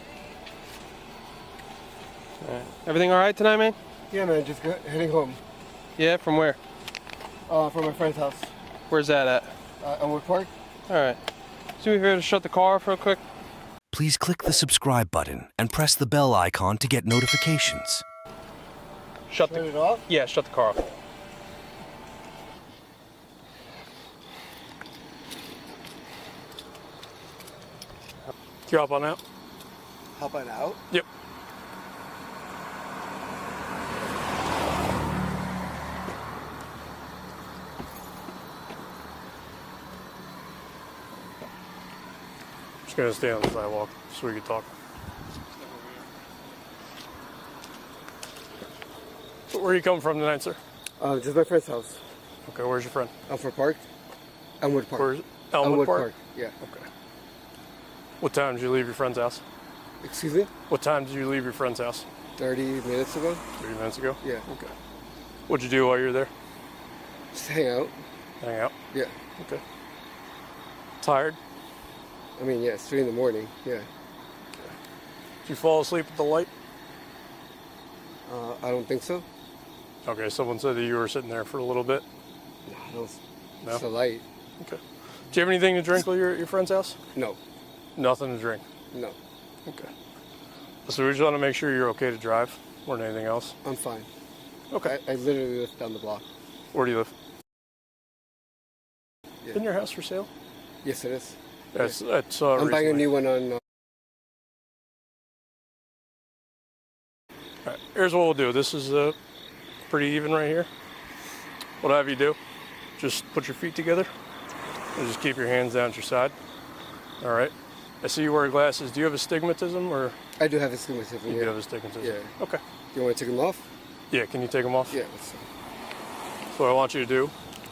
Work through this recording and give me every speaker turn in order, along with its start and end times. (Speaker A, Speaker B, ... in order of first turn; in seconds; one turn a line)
Speaker A: 2.4-3.8
Speaker B: 4.1-5.4
Speaker A: 6.0-6.6
Speaker B: 7.5-8.5
Speaker A: 8.9-9.5
Speaker B: 9.8-10.5
Speaker A: 10.9-11.2
Speaker A: 11.8-13.2
Speaker C: 13.9-18.0
Speaker A: 19.3-20.8
Speaker B: 19.5-20.1
Speaker D: 28.7-29.2
Speaker B: 30.1-30.8
Speaker D: 42.9-44.7
Speaker D: 49.5-50.6
Speaker B: 51.0-52.0
Speaker D: 52.5-53.1
Speaker B: 53.3-53.8
Speaker B: 54.6-56.6
Speaker D: 55.0-56.1
Speaker D: 56.6-56.9
Speaker D: 58.2-59.4
Speaker B: 60.0-60.5
Speaker D: 60.7-62.1
Speaker B: 62.4-63.4
Speaker D: 63.6-64.7
Speaker D: 65.5-66.3
Speaker B: 67.3-68.0
Speaker D: 68.4-68.7
Speaker D: 71.0-71.4
Speaker B: 72.4-73.9
Speaker D: 75.5-76.5
Speaker B: 78.2-79.2
Speaker D: 80.0-82.0
Speaker B: 82.7-84.2
Speaker D: 84.6-87.0
Speaker D: 88.0-88.6
Speaker B: 88.9-89.2
Speaker D: 90.8-93.5
Speaker B: 93.6-94.1
Speaker D: 94.7-95.0
Speaker B: 94.8-96.2
Speaker D: 96.7-97.1
Speaker D: 99.5-100.3
Speaker B: 100.8-102.0
Speaker D: 101.8-103.1
Speaker B: 102.5-103.6
Speaker D: 107.7-109.2
Speaker D: 109.9-110.7
Speaker D: 111.8-112.4
Speaker D: 113.0-114.1
Speaker D: 115.0-116.3
Speaker D: 117.2-120.2
Speaker B: 120.4-122.3
Speaker D: 121.3-122.6
Speaker B: 122.9-123.7
Speaker D: 124.1-125.0
Speaker B: 124.9-125.5
Speaker D: 126.5-127.3